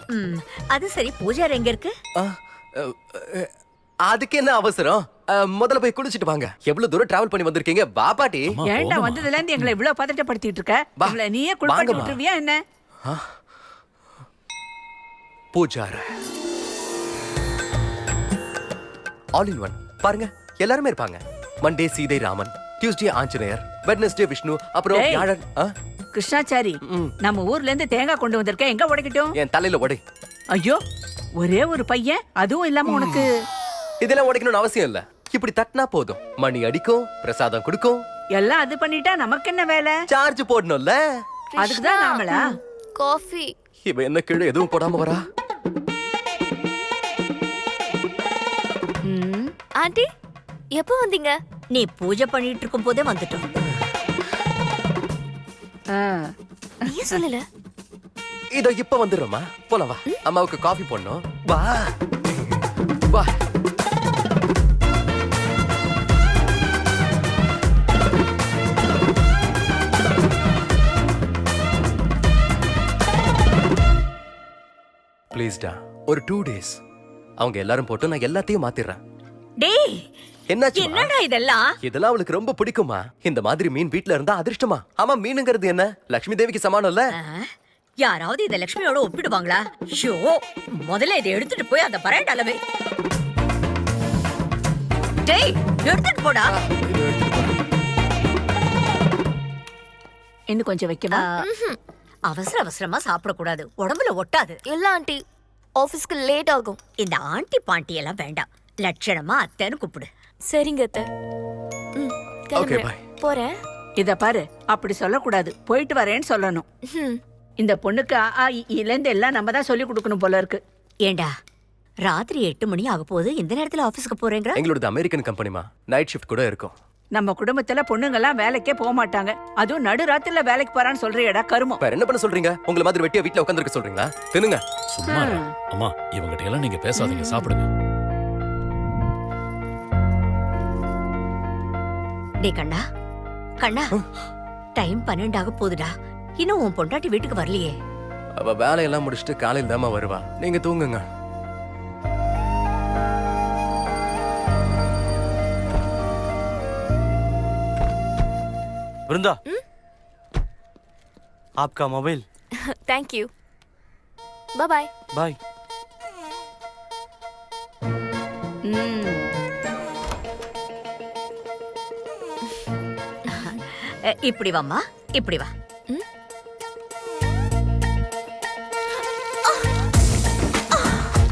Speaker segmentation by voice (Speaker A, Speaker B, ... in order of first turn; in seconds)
Speaker A: 0.1-1.9, 51.7-53.5, 79.6-80.1, 80.8-81.7, 87.1-87.5, 88.0-92.6, 95.2-96.5, 101.1-101.4, 102.3-104.6, 107.0-110.1, 121.0-121.3, 122.0-124.6, 142.4-142.8, 143.6-143.9, 144.8-147.7, 173.3-175.5
Speaker B: 2.2-3.5, 4.1-8.5, 11.0-12.2, 15.5-16.1, 19.3-25.7, 26.9-27.1, 29.4-30.0, 32.9-33.3, 34.0-38.0, 40.1-41.0, 43.9-45.2, 58.5-61.9, 75.3-76.8, 77.4-79.0, 80.5-81.1, 81.8-87.1, 96.5-97.6, 112.5-113.0, 124.5-126.8, 131.8-134.6, 148.4-151.1
Speaker C: 8.5-9.3, 134.9-137.7
Speaker D: 8.7-12.6, 24.9-25.3, 26.1-29.3, 30.6-30.8, 31.4-33.3, 38.4-40.0, 41.6-42.5, 55.9-56.3, 100.5-101.2, 114.0-116.6, 117.6-120.6, 127.2-131.8, 135.0-135.5, 168.7-169.2
Speaker E: 41.5-42.4, 43.0-43.5, 49.1-50.0, 50.7-51.4, 56.9-57.4, 101.4-101.8, 104.7-105.2, 105.8-106.8, 110.5-111.1, 112.0-113.5, 116.9-117.2, 137.0-137.4, 162.8-163.3, 164.6-164.9